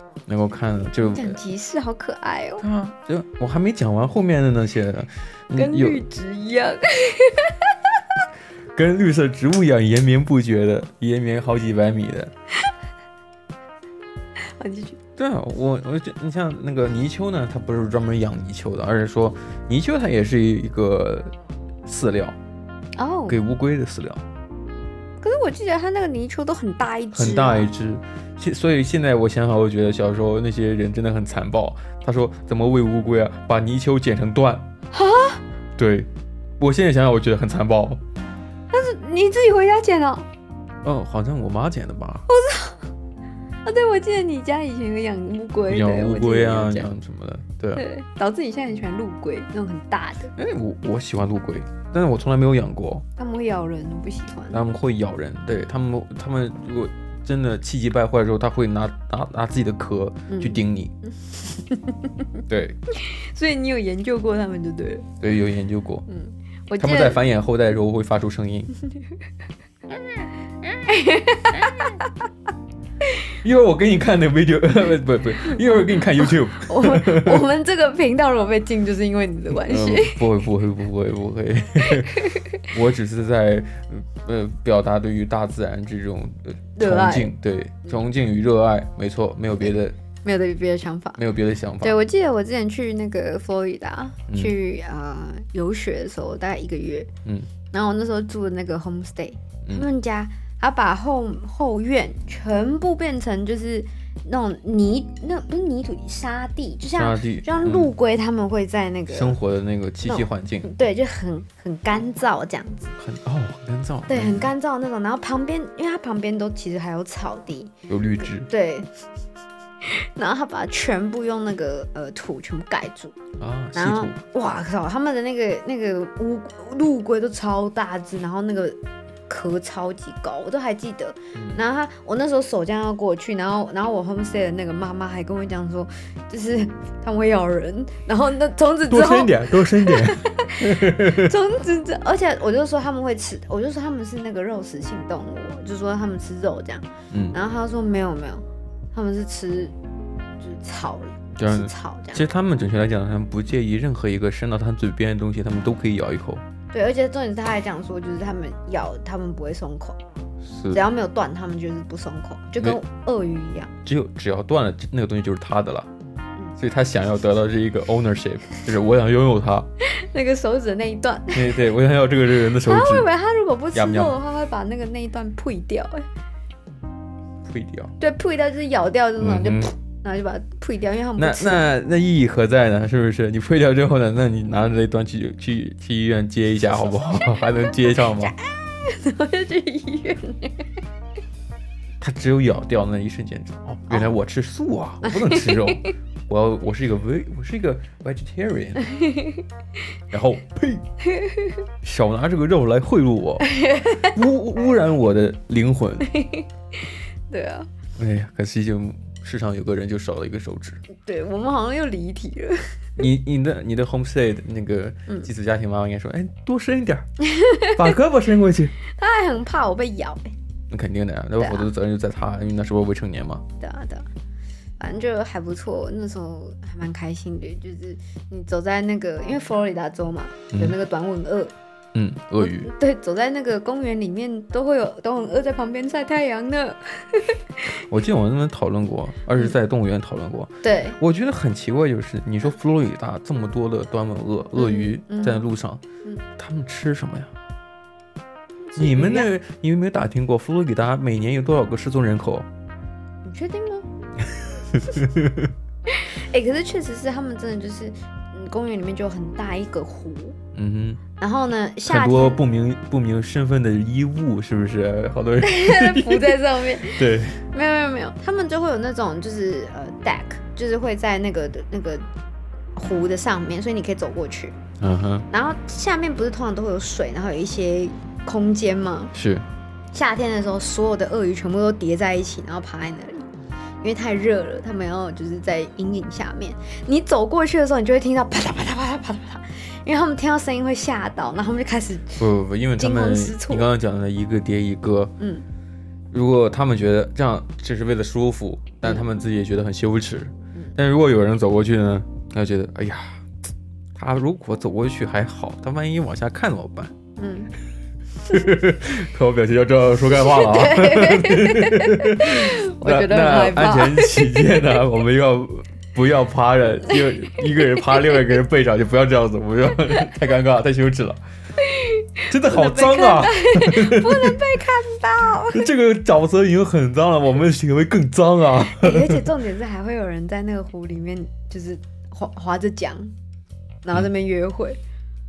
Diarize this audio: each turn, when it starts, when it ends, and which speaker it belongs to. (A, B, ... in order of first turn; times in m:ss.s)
0:00.3-0:01.4 A
0:01.0-0:02.6 B
0:02.6-0:06.0 A
0:05.5-0:08.0 B
0:08.7-0:12.3 A
0:14.4-0:15.0 B
0:15.2-0:21.3 A
0:21.8-0:22.4 A
0:23.0-0:23.4 B
0:23.3-0:24.2 A
0:25.2-0:27.7 B
0:27.1-0:34.7 A
0:34.9-0:35.4 B
0:35.8-0:38.0 A
0:38.7-0:40.3 B
0:40.8-0:42.3 A
0:42.3-0:42.9 B
0:43.6-0:46.9 B
0:45.7-0:47.8 A
0:47.7-0:50.3 B
0:50.3-0:53.0 A
0:53.2-0:54.6 B
0:54.5-1:00.9 A
1:00.3-1:05.1 B
1:02.5-1:02.8 A
1:05.2-1:06.0 A
1:06.1-1:07.2 B
1:06.8-1:08.7 A
1:10.6-1:12.1 B
1:13.4-1:17.4 A
1:16.2-1:20.3 B
1:19.6-1:30.0 A
1:21.8-1:22.7 B
1:26.8-1:27.3 B
1:30.2-1:31.2 B
1:31.2-1:32.0 A
1:31.8-1:37.1 B
1:34.3-1:34.5 A
1:37.2-1:37.5 A
1:37.7-1:49.4 B
1:46.9-1:47.9 A
1:49.1-1:50.7 A
1:50.0-1:52.9 B
1:53.0-1:54.5 A
1:54.1-1:58.9 B
1:57.9-1:58.5 A
1:59.8-2:03.2 B
2:03.4-2:04.2 A
2:03.7-2:29.7 B
2:11.3-2:11.6 A
2:18.9-2:21.3 A
2:27.1-2:27.4 A
2:30.4-2:32.2 B
2:31.4-2:36.4 A
2:36.7-2:40.0 B
2:40.5-2:40.8 A
2:40.7-2:43.7 B
2:43.8-2:45.9 A
2:46.6-2:49.7 A
2:49.8-2:51.6 B
2:51.3-2:53.1 A
2:52.6-2:56.1 B
2:53.7-2:54.1 A
2:57.4-2:58.0 A
2:58.0-3:01.6 B
2:59.2-2:59.7 A
3:01.2-3:08.3 A
3:06.7-3:10.8 B
3:12.0-3:18.8 A
3:13.9-3:14.1 B
3:15.0-3:15.9 B
3:18.8-3:19.4 B
3:20.1-3:20.8 A
3:21.0-3:21.6 B
3:21.8-3:23.5 A
3:23.4-3:24.2 B
3:24.0-3:26.1 A
3:26.0-3:26.5 B
3:27.3-3:27.7 B
3:28.0-3:30.8 A
3:30.9-3:32.8 B
3:33.0-3:37.1 A
3:37.2-3:37.9 B
3:37.7-3:38.7 A
3:38.8-3:40.3 B
3:40.7-3:43.4 A
3:41.4-3:41.7 B
3:43.6-3:44.1 B
3:44.8-3:51.5 B
3:50.5-3:50.8 A
3:51.9-3:52.7 A
3:52.4-3:57.8 B
3:57.7-4:05.8 A
4:00.6-4:01.0 B
4:04.6-4:05.5 B
4:06.4-4:07.3 A
4:08.7-4:09.3 B
4:08.8-4:12.5 A
4:13.2-4:13.9 B
4:14.4-4:15.5 A
4:15.9-4:20.4 B
4:20.5-4:21.0 A
4:21.2-4:22.4 B
4:21.8-4:27.4 A
4:25.4-4:32.0 B
4:32.8-4:34.5 B
4:34.8-4:35.3 A
4:35.3-4:39.1 B
4:39.1-4:39.4 A
4:39.9-4:43.3 B
4:43.8-4:52.3 B
4:52.2-4:55.1 A
4:52.8-4:53.7 B
4:55.2-4:55.4 B
4:56.1-5:03.2 A
5:03.9-5:06.9 A
5:07.2-5:07.5 B
5:08.3-5:21.2 A
5:10.1-5:14.7 B
5:17.4-5:18.3 B
5:21.6-5:25.7 B
5:22.3-5:24.5 A
5:25.4-5:29.3 A
5:28.8-5:33.1 B
5:33.8-5:34.8 B